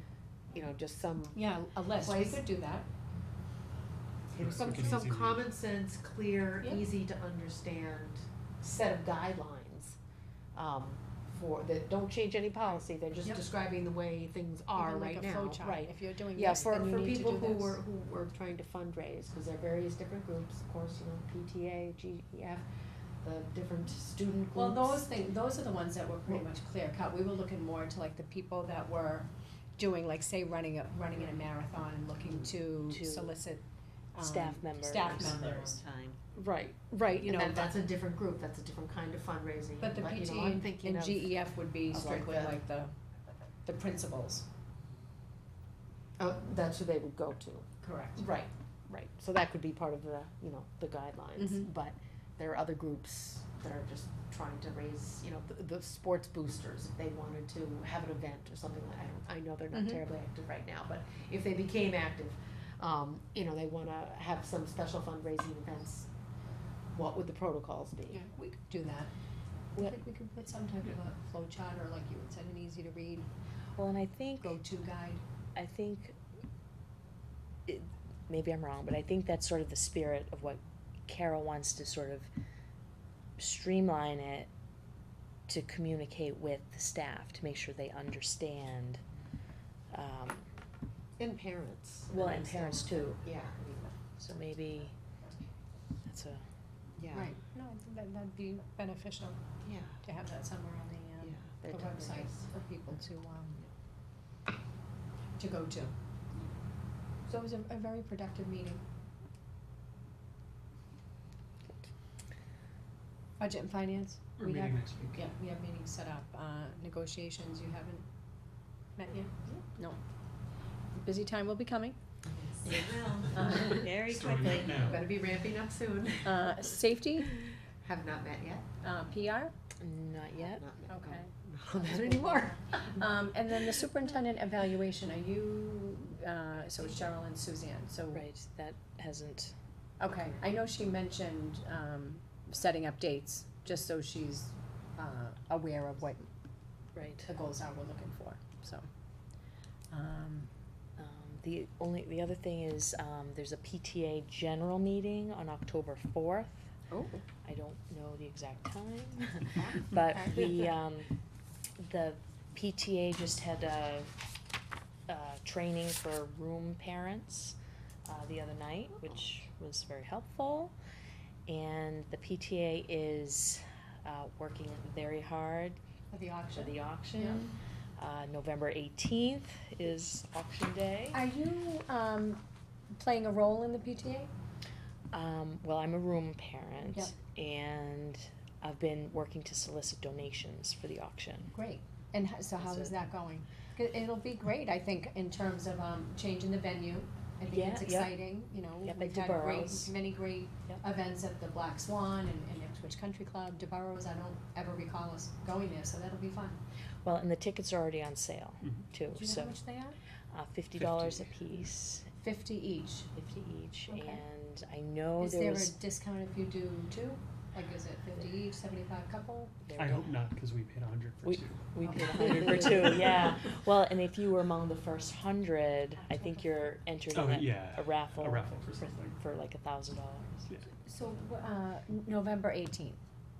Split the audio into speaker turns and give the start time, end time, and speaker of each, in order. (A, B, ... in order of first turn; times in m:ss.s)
0:00.5-0:01.4 A
0:01.3-0:02.9 B
0:01.9-0:02.4 A
0:04.3-0:05.5 C
0:04.3-0:10.0 A
0:10.5-0:22.6 A
0:14.7-0:17.8 B
0:23.2-0:25.2 A
0:24.5-0:35.8 B
0:32.2-0:32.5 A
0:32.9-0:33.3 D
0:34.2-0:35.5 D
0:35.0-0:41.3 A
0:36.4-0:37.7 B
0:39.8-0:42.9 B
0:41.9-0:42.6 A
0:43.6-0:44.4 B
0:46.2-1:06.1 A
0:47.8-0:48.2 B
0:51.4-0:51.7 B
0:59.7-1:00.0 B
1:06.9-1:08.2 A
1:08.1-1:09.1 B
1:09.7-1:13.3 B
1:13.8-1:14.6 D
1:14.4-1:15.2 B
1:15.5-1:16.2 D
1:17.7-1:22.3 D
1:23.4-1:24.5 D
1:25.5-1:29.0 D
1:29.9-1:30.5 D
1:31.2-1:34.0 A
1:32.1-1:33.3 D
1:34.2-1:35.0 D
1:36.0-1:36.4 D
1:37.0-1:37.3 A
1:37.1-1:39.4 B
1:39.6-1:40.0 A
1:40.0-1:43.6 B
1:41.2-1:42.5 A
1:45.4-1:45.9 B
1:47.3-1:48.8 B
1:53.4-1:58.0 B
1:54.4-1:55.3 C
1:59.0-2:00.0 B
2:00.9-2:02.0 B
2:02.3-2:03.4 A
2:02.7-2:04.8 D
2:03.3-2:03.8 B
2:03.4-2:05.0 C
2:04.8-2:06.6 A
2:06.2-2:07.4 B
2:07.8-2:08.7 A
2:08.8-2:09.5 B
2:09.8-2:10.6 D
2:10.5-2:12.6 A
2:10.9-2:18.2 B
2:18.1-2:19.6 D
2:20.0-2:26.3 B
2:26.9-2:27.3 D
2:27.3-2:28.8 B
2:29.9-2:30.5 B
2:31.0-2:36.7 D
2:36.9-2:37.2 B
2:37.4-2:41.1 D
2:39.9-2:40.3 B
2:41.8-2:44.2 D
2:45.1-2:50.7 D
2:51.5-2:55.8 D
2:56.1-2:57.4 B
2:56.5-3:01.2 D
3:01.1-3:02.4 B
3:02.9-3:04.3 B
3:05.1-3:11.6 D
3:06.9-3:07.1 B
3:11.5-3:26.6 B
3:12.6-3:12.9 D
3:17.5-3:18.2 D
3:18.8-3:19.9 D
3:27.0-3:29.6 D
3:29.1-3:30.0 B
3:30.3-3:32.1 D
3:30.8-3:31.7 C
3:32.2-3:33.1 B
3:33.1-3:35.8 D
3:33.9-3:34.2 B
3:35.2-3:39.6 B
3:39.6-3:40.2 D
3:39.7-3:43.1 C
3:41.2-3:50.5 D
3:41.8-3:43.0 B
3:46.1-3:46.7 B
3:47.1-3:49.2 C
3:50.8-3:53.0 B